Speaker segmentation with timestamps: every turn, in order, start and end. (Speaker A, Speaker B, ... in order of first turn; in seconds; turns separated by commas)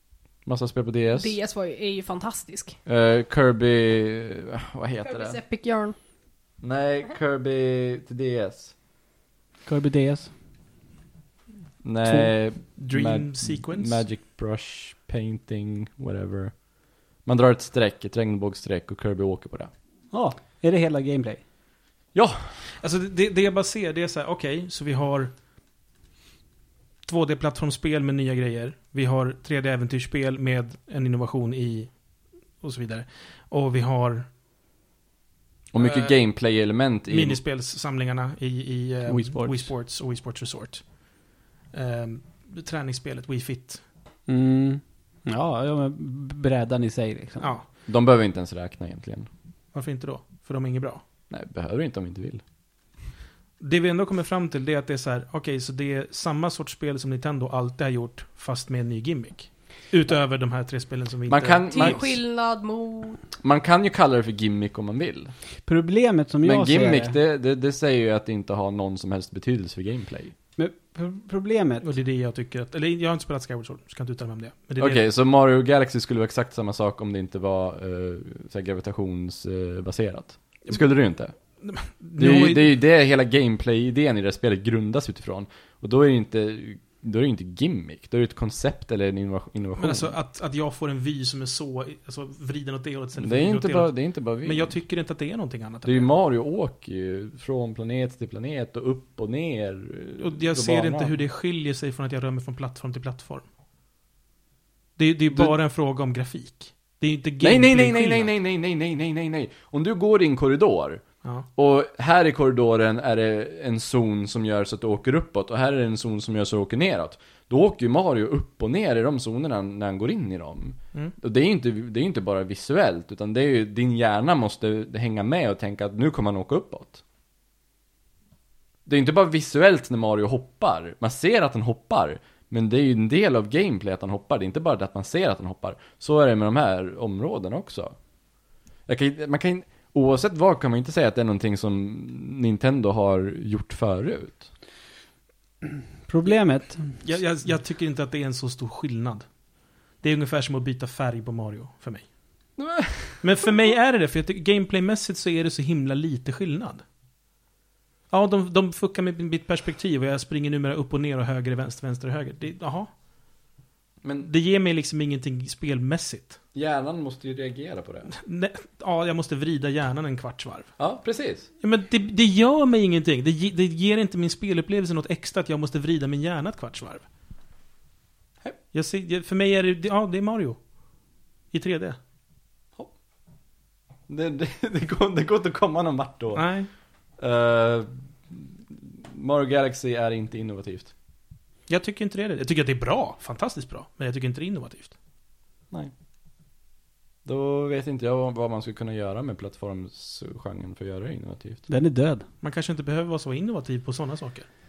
Speaker A: 0.4-1.3, Speaker B: 1.1-2.8, Speaker A: 2.9-5.4, Speaker B: 5.0-6.0, Speaker A: 6.6-8.7, Speaker C: 9.6-10.3, Speaker A: 11.8-16.6, Speaker D: 12.0-14.0, Speaker A: 17.2-19.7, Speaker C: 20.1-21.4, Speaker A: 22.1-22.5, Speaker D: 22.8-25.3, Speaker D: 27.0-32.0, Speaker D: 32.6-34.3, Speaker A: 35.7-37.4, Speaker D: 35.8-36.2, Speaker D: 37.1-43.8, Speaker C: 39.1-39.7, Speaker C: 44.3-47.5, Speaker D: 47.4-47.6, Speaker A: 47.9-49.3, Speaker D: 49.7-51.0, Speaker A: 51.3-52.4, Speaker D: 53.6-62.1, Speaker A: 61.3-62.1, Speaker B: 61.7-63.2, Speaker A: 63.4-65.3, Speaker C: 65.6-67.1, Speaker A: 66.4-70.3, Speaker C: 70.6-71.9, Speaker D: 71.8-75.0, Speaker A: 74.8-81.3, Speaker D: 81.3-82.7, Speaker A: 82.2-90.1, Speaker D: 89.8-96.1, Speaker A: 93.2-94.7, Speaker A: 95.8-101.2, Speaker D: 100.2-103.5, Speaker D: 105.0-108.3, Speaker A: 107.4-111.0, Speaker A: 111.6-127.0, Speaker A: 128.8-138.0, Speaker A: 138.9-144.5, Speaker C: 146.1-147.0, Speaker D: 147.0-149.3, Speaker D: 150.0-152.1, Speaker A: 152.6-153.2, Speaker D: 153.2-156.8, Speaker D: 158.1-162.9, Speaker D: 164.2-166.4, Speaker A: 166.5-168.1, Speaker D: 168.1-170.7, Speaker A: 170.8-171.5, Speaker D: 171.6-177.0, Speaker D: 178.7-180.6, Speaker D: 181.5-182.0, Speaker A: 184.1-186.4, Speaker D: 186.3-186.7, Speaker A: 187.2-190.9, Speaker D: 191.7-194.9, Speaker A: 197.2-201.6, Speaker C: 201.7-202.2, Speaker D: 202.4-204.5